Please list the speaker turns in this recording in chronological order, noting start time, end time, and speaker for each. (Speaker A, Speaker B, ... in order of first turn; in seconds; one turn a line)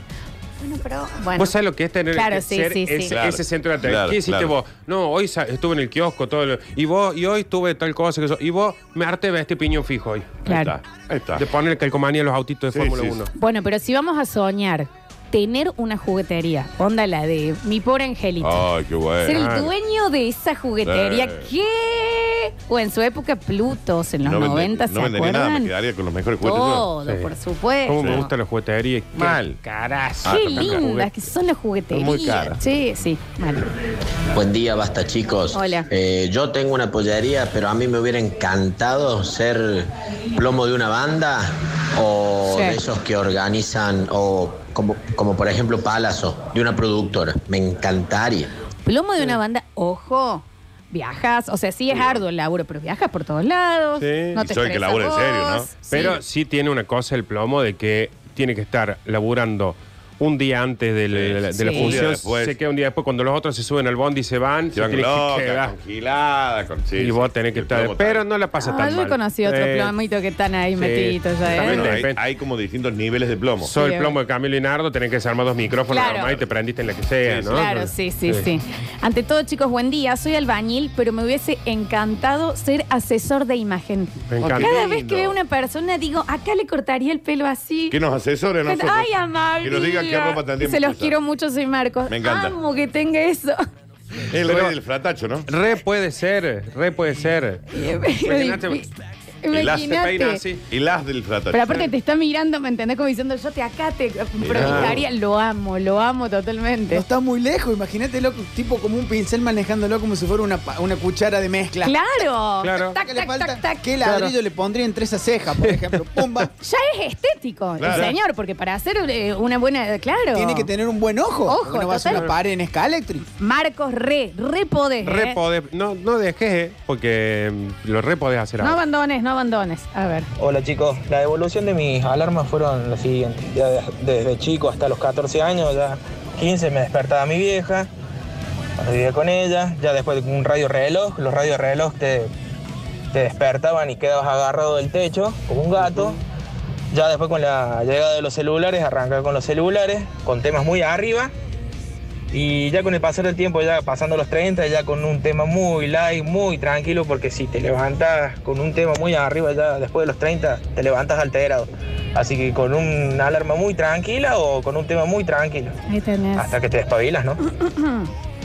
Speaker A: 0.6-1.6
Speaker B: 1.4-10.5
Speaker A: 2.1-3.1
Speaker C: 3.1-4.6
Speaker A: 10.5-10.8
Speaker C: 10.5-11.4
Speaker B: 11.4-13.3
Speaker C: 12.7-13.2
Speaker A: 13.4-18.7
Speaker C: 18.4-19.4
Speaker A: 19.2-25.7
Speaker B: 19.3-19.7
Speaker C: 20.8-21.5
Speaker C: 24.2-26.9
Speaker A: 26.4-28.3
Speaker B: 27.1-27.3
Speaker B: 27.9-31.1
Speaker C: 28.0-28.3
Speaker C: 29.1-29.6
Speaker C: 30.2-30.9
Speaker A: 30.3-33.7
Speaker C: 31.9-32.6
Speaker D: 34.4-48.5
Speaker A: 35.5-35.9
Speaker A: 42.5-42.8
Speaker A: 48.9-56.2
Speaker C: 51.9-52.2
Speaker B: 54.0-54.4
Speaker C: 54.4-56.0
Speaker B: 55.9-65.8
Speaker C: 61.1-62.6
Speaker A: 61.5-62.0
Speaker C: 64.7-68.2
Speaker B: 67.0-69.9
Speaker A: 68.6-71.9
Speaker B: 70.8-72.2
Speaker C: 71.6-73.7
Speaker B: 73.6-78.5
Speaker A: 73.8-74.2
Speaker A: 75.9-76.4
Speaker C: 77.2-77.6
Speaker A: 77.5-88.0
Speaker B: 84.3-84.8
Speaker C: 84.4-85.4
Speaker C: 87.9-89.1
Speaker A: 88.7-93.6
Speaker C: 89.6-91.2
Speaker C: 92.1-92.6
Speaker C: 94.3-95.5
Speaker B: 94.4-94.8
Speaker B: 95.5-97.7
Speaker A: 97.7-98.9
Speaker B: 98.2-98.8
Speaker A: 99.4-100.4
Speaker C: 99.5-100.0
Speaker B: 99.6-100.6
Speaker C: 100.7-101.9
Speaker A: 101.5-107.0
Speaker C: 104.4-105.0
Speaker B: 104.5-105.0
Speaker E: 106.9-112.3
Speaker A: 111.8-113.8
Speaker B: 112.6-113.0
Speaker E: 113.0-116.5
Speaker B: 115.6-116.5
Speaker A: 116.6-120.7
Speaker C: 117.8-118.2
Speaker B: 117.9-118.1
Speaker E: 120.3-123.2
Speaker A: 121.5-122.3
Speaker A: 123.4-125.4
Speaker B: 125.0-128.8
Speaker A: 128.6-130.3
Speaker F: 130.4-137.9
Speaker F: 138.8-142.3
Speaker F: 143.1-146.2
Speaker F: 146.9-151.3
Speaker F: 152.3-165.8
Speaker A: 165.9-166.6
Speaker F: 166.4-167.4
Speaker A: 167.5-168.1